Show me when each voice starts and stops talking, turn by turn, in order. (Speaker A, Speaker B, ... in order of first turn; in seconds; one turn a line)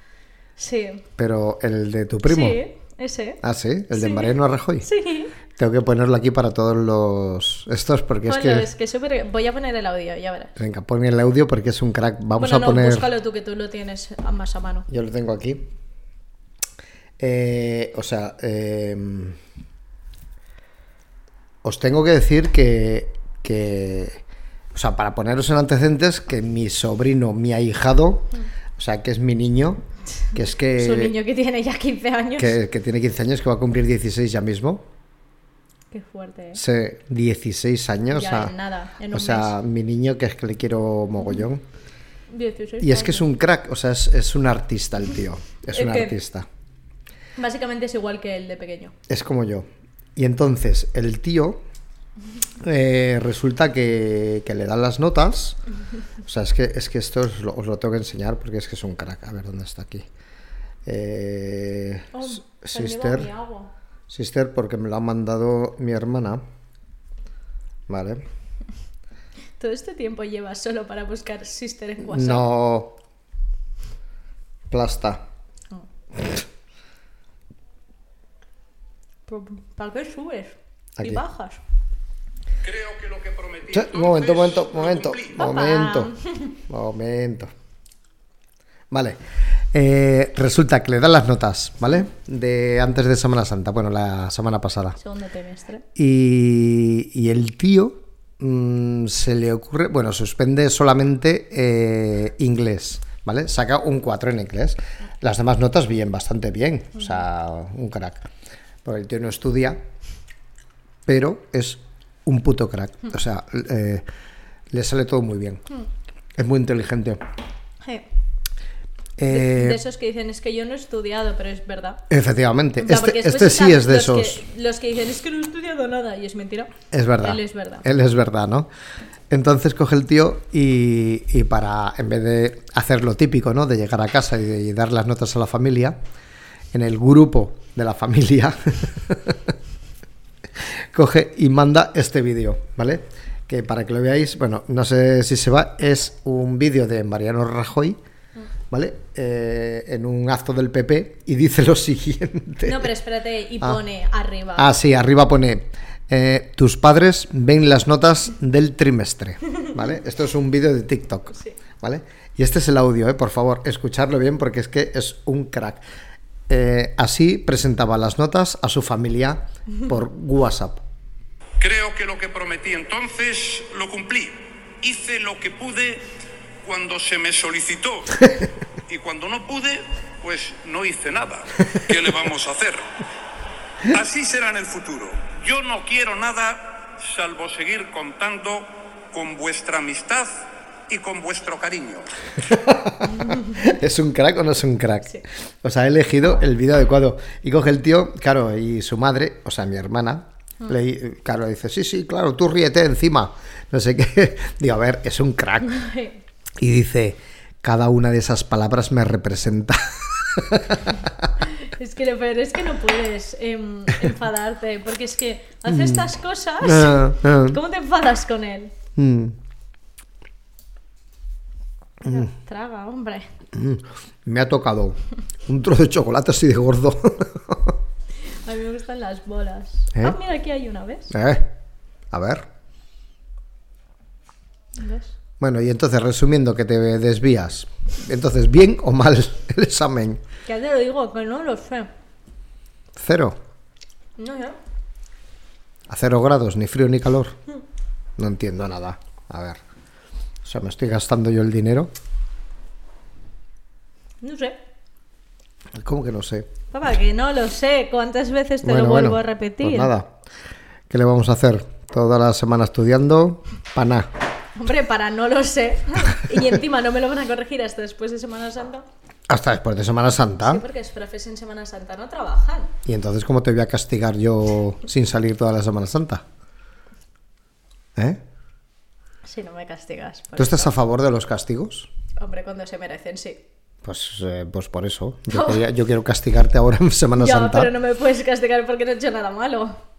Speaker A: 0.6-1.1
Speaker B: 1.2-2.6
Speaker A: 2.3-3.4
Speaker B: 3.4-4.9
Speaker A: 3.9-5.3
Speaker B: 5.5-8.7
Speaker A: 8.3-10.6
Speaker B: 10.6-13.1
Speaker A: 12.4-14.9
Speaker B: 14.9-15.7
Speaker B: 17.2-19.4
Speaker B: 21.6-24.2
Speaker B: 24.7-29.8
Speaker B: 30.3-31.1
Speaker A: 30.8-32.6
Speaker B: 32.4-34.9
Speaker A: 35.9-36.6
Speaker B: 36.5-38.5
Speaker A: 38.1-39.5
Speaker B: 39.1-41.6
Speaker A: 42.3-43.2
Speaker B: 42.8-46.5
Speaker A: 45.7-46.2
Speaker A: 47.4-48.9
Speaker B: 49.1-51.6
Speaker B: 52.6-55.6
Speaker B: 56.2-60.1
Speaker B: 60.9-63.3
Speaker A: 62.1-63.7
Speaker B: 64.1-66.4
Speaker B: 67.9-68.3
Speaker A: 69.6-72.5
Speaker B: 72.0-73.0
Speaker B: 74.7-75.2
Speaker A: 79.3-81.6
Speaker C: 82.6-85.4
Speaker B: 83.7-86.1
Speaker A: 85.4-86.5
Speaker B: 86.7-87.5
Speaker B: 88.9-89.2
Speaker B: 89.7-95.0
Speaker A: 95.0-95.8
Speaker B: 96.0-108.3
Speaker B: 108.8-109.8
Speaker B: 111.1-114.0
Speaker B: 114.7-115.6
Speaker B: 116.4-117.2
Speaker B: 119.2-119.8
Speaker A: 119.3-122.0
Speaker B: 122.1-124.4
Speaker A: 122.8-126.7
Speaker B: 126.9-128.7
Speaker A: 127.2-127.8
Speaker B: 129.3-136.0
Speaker B: 136.7-139.6
Speaker B: 140.6-148.0
Speaker B: 148.7-152.9
Speaker A: 152.6-154.7
Speaker B: 154.6-165.8
Speaker B: 166.5-170.8
Speaker C: 171.6-176.1
Speaker C: 176.6-178.3
Speaker C: 178.9-182.9
Speaker C: 183.8-192.1
Speaker B: 192.4-205.8
Speaker A: 193.1-193.5
Speaker A: 205.6-206.2
Speaker B: 206.6-211.3
Speaker A: 211.5-218.7
Speaker B: 215.7-216.0
Speaker B: 216.6-217.6
Speaker B: 219.0-219.4
Speaker A: 222.0-223.3
Speaker B: 223.5-227.8
Speaker A: 228.3-231.1
Speaker B: 231.1-231.6
Speaker B: 232.1-232.5
Speaker A: 234.8-235.2
Speaker B: 235.4-240.2
Speaker A: 240.5-241.9
Speaker B: 243.0-243.4
Speaker A: 244.2-244.6
Speaker B: 245.9-247.4
Speaker B: 248.2-249.6
Speaker B: 250.4-251.9
Speaker A: 254.2-254.6
Speaker B: 255.8-256.5
Speaker A: 256.7-259.9
Speaker B: 258.6-260.1
Speaker B: 260.9-264.1
Speaker A: 264.6-268.9
Speaker B: 269.3-270.6
Speaker A: 270.4-272.7
Speaker B: 272.9-276.2
Speaker B: 278.0-278.2
Speaker A: 279.2-280.7
Speaker B: 280.4-281.9
Speaker A: 282.2-283.4
Speaker B: 283.8-287.7
Speaker A: 285.3-285.6
Speaker A: 287.2-289.8